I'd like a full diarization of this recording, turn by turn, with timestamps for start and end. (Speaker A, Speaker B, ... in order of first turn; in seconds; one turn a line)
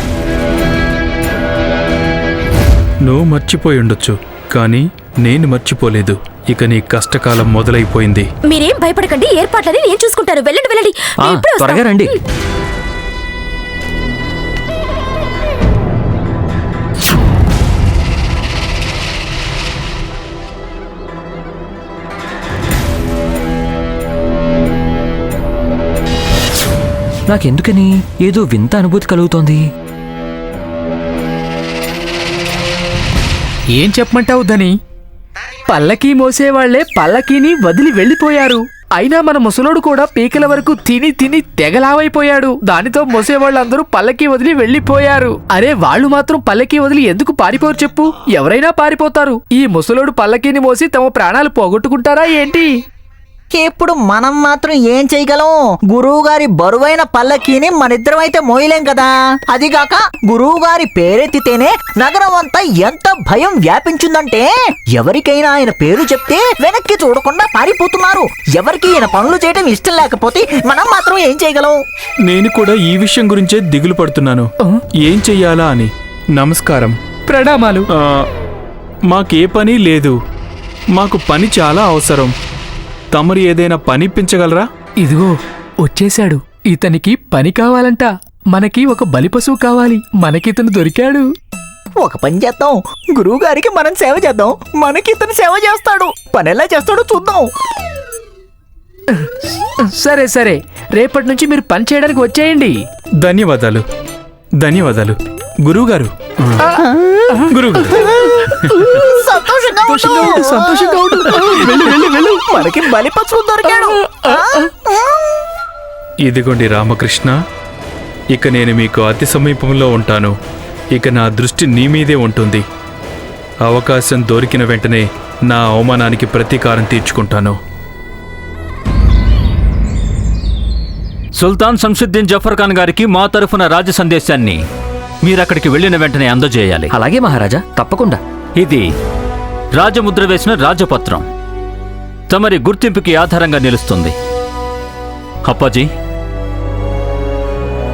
Speaker A: 3.0-8.3
Speaker B: 8.4-12.1
Speaker C: 11.2-12.1
Speaker C: 27.3-29.6
Speaker D: 33.7-34.8
Speaker D: 35.7-52.8
Speaker E: 53.5-71.8
Speaker A: 72.3-74.5
Speaker A: 75.0-77.0
Speaker D: 77.3-77.8
Speaker A: 77.9-78.3
Speaker A: 79.1-80.1
Speaker A: 81.0-82.3
Speaker A: 83.1-84.7
Speaker D: 85.0-91.2
Speaker E: 92.0-97.5
Speaker D: 99.8-102.8
Speaker A: 103.2-103.8
Speaker A: 104.6-106.7
Speaker E: 106.7-115.2
Speaker A: 107.5-108.0
Speaker D: 109.8-112.6
Speaker D: 113.7-114.3
Speaker A: 116.2-117.3
Speaker A: 118.3-120.3
Speaker A: 121.0-122.6
Speaker A: 123.6-127.6
Speaker F: 131.4-134.6
Speaker F: 135.2-136.9
Speaker C: 136.9-138.2
Speaker F: 138.6-138.8
Speaker F: 139.8-141.2
Speaker F: 142.3-144.1
Speaker F: 145.5-145.9